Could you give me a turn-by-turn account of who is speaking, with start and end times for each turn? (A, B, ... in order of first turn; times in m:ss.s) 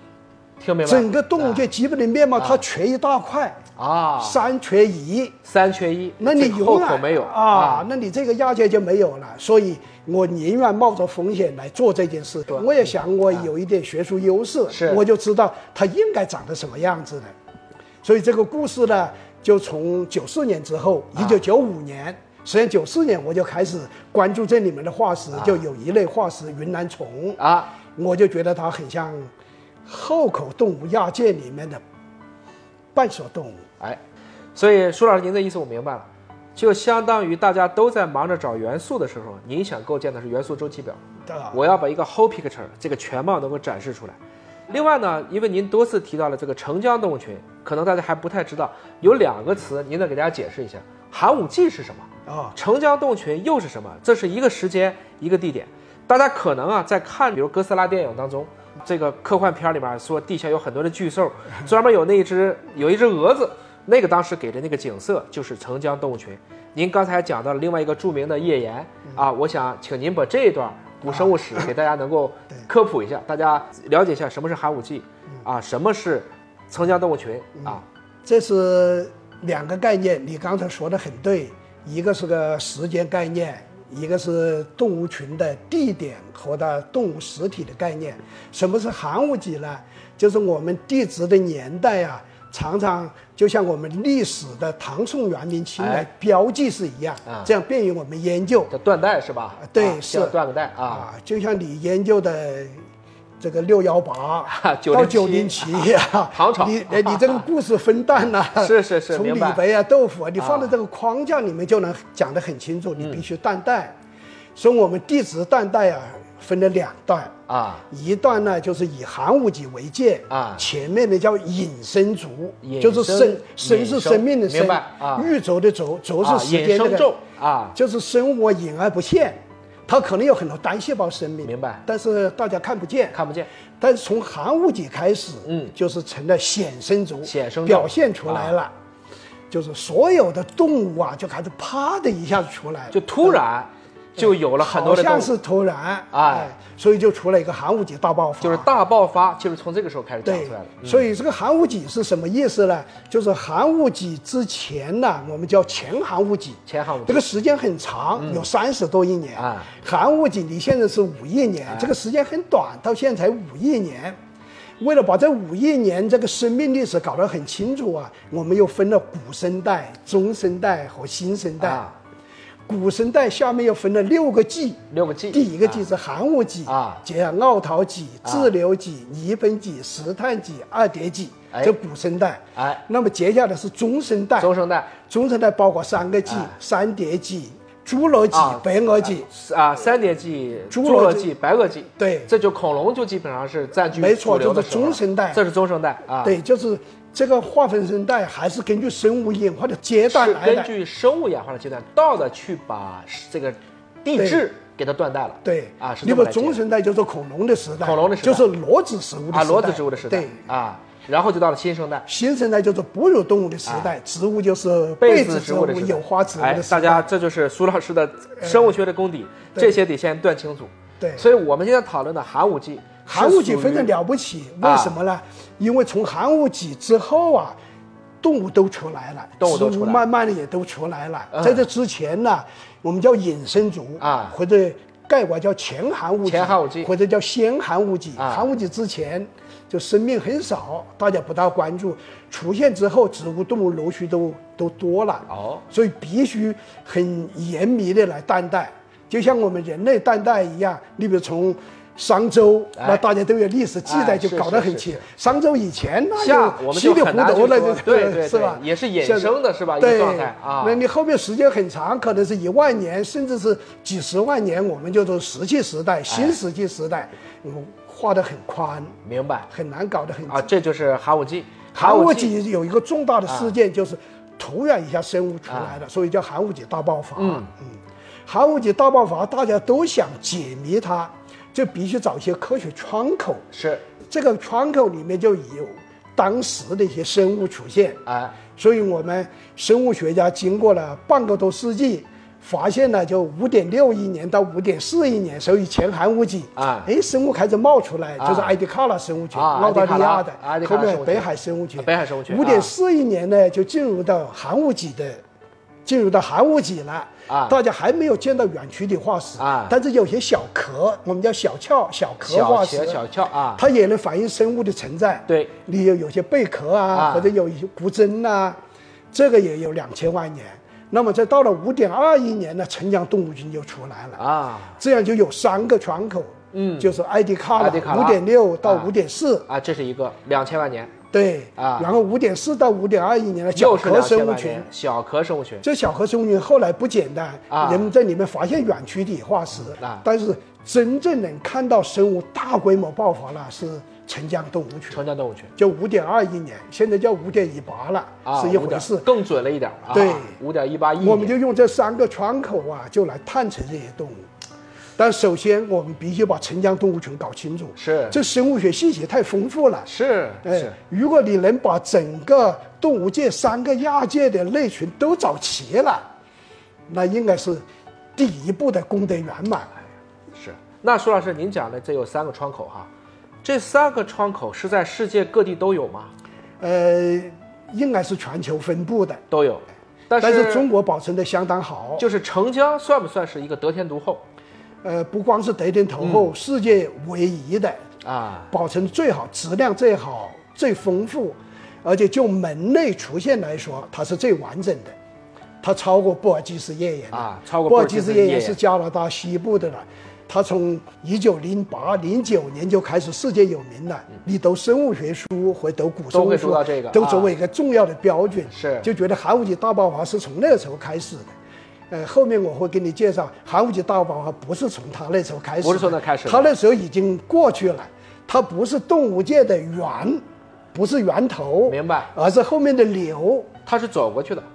0:00.6-0:01.7 A
0:00.8-0:03.6 B
0:03.8-0:04.4 A
0:04.2-0:05.4 B
0:05.4-0:07.9 A
0:06.2-0:17.3 B
0:12.5-0:13.5 A
0:14.7-0:15.0 A
0:18.0-0:27.4 B
0:25.4-0:25.6 A
0:27.4-0:27.8 A
0:28.0-0:29.3 B
0:29.9-0:31.8 B
0:33.0-0:33.6 B
0:34.6-0:41.0 A
0:41.3-0:41.6 B
0:41.5-1:17.8 A
0:52.3-0:52.6 B
1:11.0-1:11.7 B
1:17.6-1:38.7 B
1:35.8-1:36.1 A
1:37.3-1:37.5 A
1:38.7-1:41.1 A
1:39.6-1:42.8 B
1:43.4-1:54.0 B
1:44.5-1:47.4 A
1:48.5-1:49.6 A
1:50.4-1:50.8 A
1:53.0-1:53.2 A
1:54.6-1:57.3 B
1:57.5-1:57.8 A
1:57.9-2:07.1 B
2:00.3-2:00.7 A
2:02.6-2:05.3 A
2:06.2-2:07.8 A
2:07.8-2:13.2 B
2:11.4-2:11.8 A
2:13.1-2:13.5 A
2:13.8-2:18.7 B
2:15.4-2:15.8 A
2:17.2-2:18.6 A
2:19.5-2:23.4 B
2:22.9-2:25.3 A
2:24.2-2:28.7 B
2:26.1-2:26.5 A
2:28.4-2:31.1 A
2:30.2-2:44.2 B
2:36.7-2:37.2 A
2:38.2-2:38.5 A
2:39.4-2:39.7 A
2:41.7-2:41.9 A
2:44.8-2:51.8 B
2:51.6-2:52.0 A
2:52.7-3:09.3 B
2:54.9-2:55.8 A
2:56.7-2:57.0 A
2:58.2-2:58.5 A
3:02.6-3:02.8 A
3:04.4-3:04.9 A
3:06.3-3:06.5 A
3:08.3-3:16.4 A
3:10.7-3:11.3 B
3:12.0-3:12.3 B
3:13.9-3:15.4 B
3:16.2-3:20.7 B
3:20.1-3:26.6 A
3:24.2-3:24.4 B
3:25.4-3:30.4 B
3:27.8-3:28.5 A
3:29.3-3:32.1 A
3:32.1-3:37.1 B
3:33.6-3:33.9 A
3:35.0-3:43.9 A
3:38.4-3:38.8 B
3:41.0-3:41.3 B
3:43.1-3:47.6 B
3:44.6-3:45.0 A
3:48.2-4:29.0 B
3:49.4-3:50.0 A
3:51.3-3:51.6 A
3:54.0-3:54.4 A
3:56.2-3:56.9 A
3:58.2-3:58.5 A
4:05.3-4:05.6 A
4:12.8-4:13.0 A
4:13.8-4:15.0 A
4:16.2-4:20.8 A
4:26.1-4:26.4 A
4:29.0-4:29.5 A
4:29.5-4:30.5 B
4:30.3-4:32.3 A
4:31.8-4:43.4 B
4:33.3-4:33.6 A
4:35.5-4:35.8 A
4:37.2-4:37.5 A
4:43.5-4:43.8 A
4:44.1-4:48.0 B
4:48.1-4:48.4 A
4:48.6-5:05.2 B
4:56.6-4:56.9 A
4:58.2-4:58.5 A
4:59.3-5:02.7 A
5:05.8-5:13.0 B
5:07.3-5:07.6 A
5:09.4-5:09.8 A
5:12.2-5:13.6 A
5:13.6-5:18.6 B
5:16.9-5:17.3 A
5:19.1-5:24.2 B
5:24.2-5:24.8 A
5:24.8-5:29.5 B
5:26.5-5:26.9 A
5:27.6-5:28.9 A
5:29.5-5:30.9 A
5:31.1-5:34.7 B
5:31.6-5:31.9 A
5:33.5-5:35.6 A
5:35.6-5:45.0 B
5:37.5-5:37.9 A
5:39.6-5:40.1 A
5:44.9-5:45.5 A
5:45.6-5:49.1 B
5:48.2-5:51.4 A
5:49.9-5:50.4 B
5:51.0-5:54.2 B
5:55.0-5:59.9 B
5:57.8-5:58.2 A
5:59.8-6:00.8 A
6:00.4-6:06.0 B
6:06.9-6:07.6 B
6:08.2-6:09.8 B
6:10.4-6:12.9 A
6:13.4-6:16.1 A
6:16.6-6:19.2 B
6:19.3-6:20.7 A
6:20.2-6:22.0 B
6:22.0-6:24.2 A
6:24.8-6:27.8 B
6:26.0-6:26.3 A
6:28.0-6:28.5 A
6:28.5-6:34.9 B
6:35.6-6:51.3 B
6:37.1-6:38.6 A
6:46.1-6:47.3 A
6:48.5-6:48.9 A
6:51.9-7:00.2 B
6:55.6-6:56.5 A
7:00.7-7:03.5 B
7:01.7-7:02.1 A
7:03.6-7:04.5 A